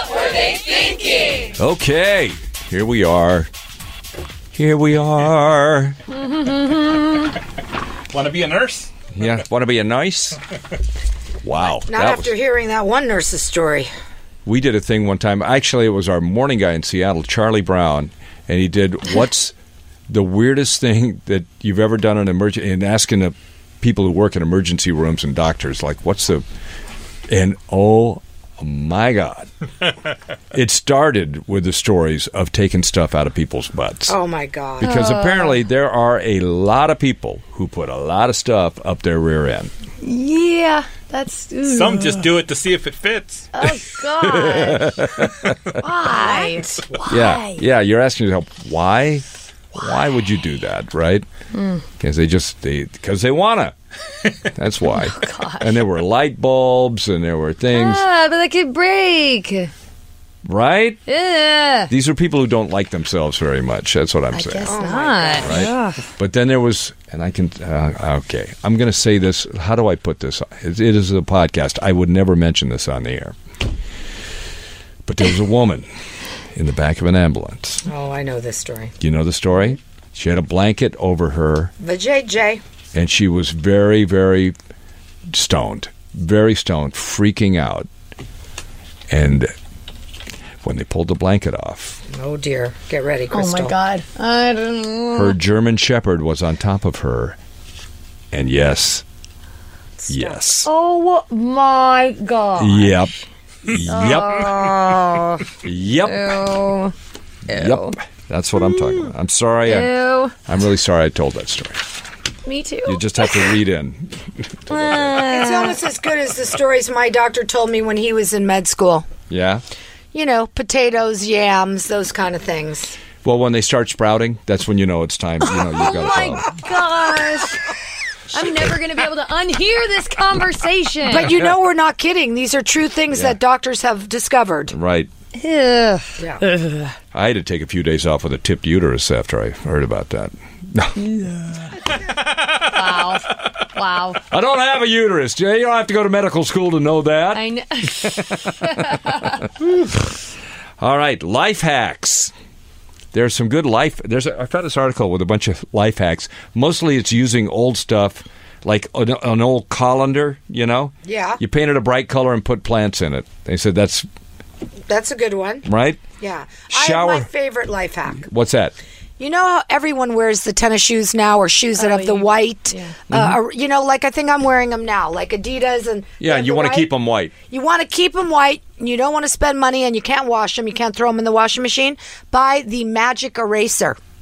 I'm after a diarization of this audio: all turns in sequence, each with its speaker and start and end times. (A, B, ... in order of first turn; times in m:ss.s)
0:00.7-0:00.9 A
0:01.6-0:03.5 B
0:04.5-0:06.0 B
0:06.1-0:07.3 A
0:08.1-0:08.9 C
0:09.1-0:10.4 B
0:11.4-0:12.3 B
0:11.9-0:13.9 D
0:14.4-0:19.5 B
0:20.1-0:26.4 B
0:27.3-0:29.5 B
0:30.5-0:34.2 B
0:34.1-0:34.9 D
0:34.8-0:39.7 B
0:34.8-0:35.6 A
0:40.0-0:42.2 A
0:41.7-0:43.5 C
0:43.5-0:45.0 A
0:44.2-0:45.6 B
0:45.8-0:47.6 A
0:46.2-0:46.6 D
0:47.1-0:51.2 B
0:51.5-0:51.8 A
0:52.0-0:53.7 B
0:54.4-0:58.0 B
0:54.8-0:55.7 A
0:57.7-0:59.7 A
1:00.4-1:01.0 B
1:01.1-1:01.9 A
1:01.9-1:04.7 B
1:04.3-1:05.6 D
1:04.5-1:06.0 A
1:05.4-1:13.4 B
1:15.0-1:15.9 B
1:16.5-1:17.8 B
1:17.8-1:18.9 D
1:19.0-1:21.7 B
1:21.8-1:22.6 D
1:22.9-1:24.5 B
1:25.3-1:27.9 B
1:29.1-1:29.5 B
1:30.6-1:32.0 B
1:32.1-1:33.7 D
1:33.3-1:35.4 A
1:35.1-1:37.4 B
1:38.3-1:39.0 B
1:40.1-1:40.7 B
1:40.1-1:40.4 D
1:40.6-1:43.0 A
1:42.6-1:43.1 B
1:43.7-1:44.5 B
1:43.9-1:46.9 A
1:45.6-1:46.4 B
1:47.5-1:48.0 A
1:47.5-1:49.9 B
1:48.6-1:49.0 A
1:49.6-1:50.3 A
1:50.4-1:51.8 B
1:52.4-1:53.5 A
1:52.8-1:55.2 B
1:54.7-1:55.8 A
1:55.2-1:59.1 D
1:59.3-1:59.6 B
2:00.1-2:03.0 D
2:03.2-2:06.6 B
2:05.4-2:07.6 A
2:08.3-2:11.3 A
2:11.0-2:14.7 D
2:14.7-2:15.1 B
2:15.3-2:16.9 A
2:17.1-2:21.3 B
2:22.3-2:22.5 C
2:22.6-2:24.2 A
2:24.3-2:29.8 B
2:27.3-2:29.3 A
2:30.8-2:32.3 B
2:33.1-2:44.1 B
2:41.0-2:41.4 D
2:44.9-2:45.7 D
2:45.6-2:46.0 B
2:46.2-2:48.3 D
2:46.7-2:47.3 B
2:48.2-2:48.8 B
2:49.2-3:04.0 D
2:51.8-2:53.0 A
2:53.1-2:53.4 B
2:56.2-2:57.3 B